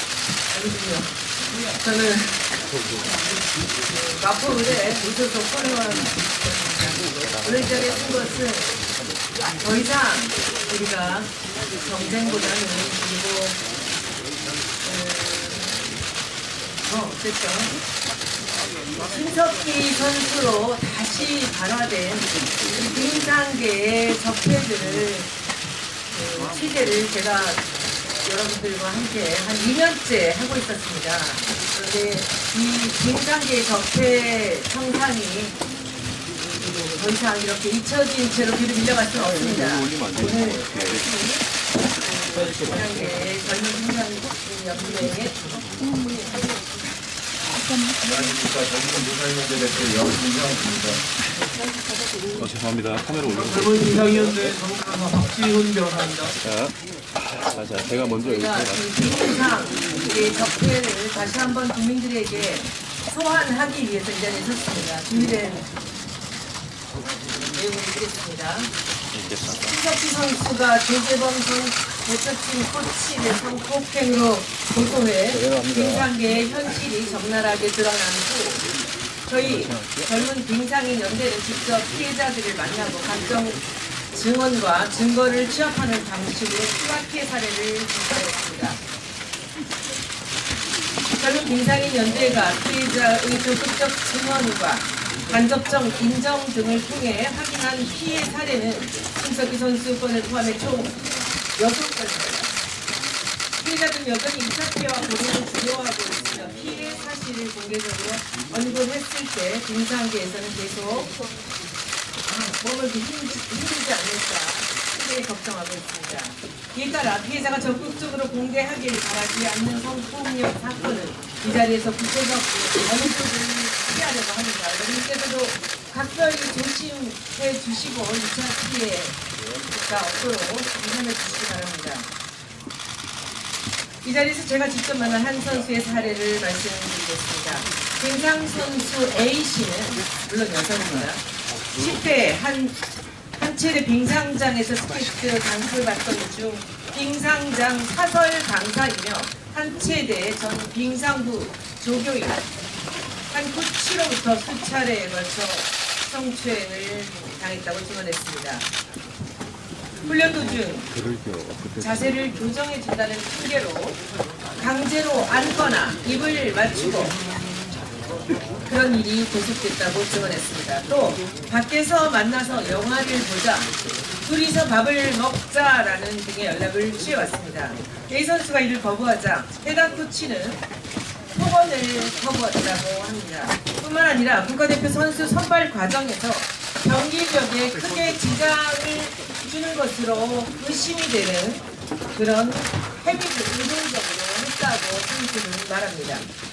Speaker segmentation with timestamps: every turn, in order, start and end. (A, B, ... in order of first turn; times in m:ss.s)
0:00.5-0:01.2 A
0:01.7-0:02.4 A
0:03.9-0:08.8 A
0:09.6-0:13.6 A
0:14.8-0:15.8 A
0:16.8-0:17.7 A
0:19.0-0:25.3 A
0:26.1-0:27.6 A
0:28.2-0:35.6 A
0:36.8-0:41.4 A
0:42.0-0:45.4 A
0:48.1-0:51.0 B
0:48.2-0:50.2 C
0:52.4-0:53.5 C
0:53.2-0:56.4 D
0:56.4-0:56.7 C
0:57.2-0:58.3 C
0:58.0-1:05.7 A
1:07.5-1:08.7 A
1:09.5-1:18.6 A
1:19.3-1:28.8 A
1:31.2-1:41.0 A
1:41.6-1:42.5 A
1:43.6-1:51.1 A
1:52.3-2:09.2 A
2:09.8-2:12.1 A
2:14.0-2:22.8 A
2:23.4-2:32.4 A
2:33.3-2:38.7 A
2:40.0-2:40.9 A
2:41.1-2:41.7 C
2:41.7-2:44.0 A
2:44.6-2:47.2 A
2:48.6-3:00.6 A
3:01.3-3:16.3 A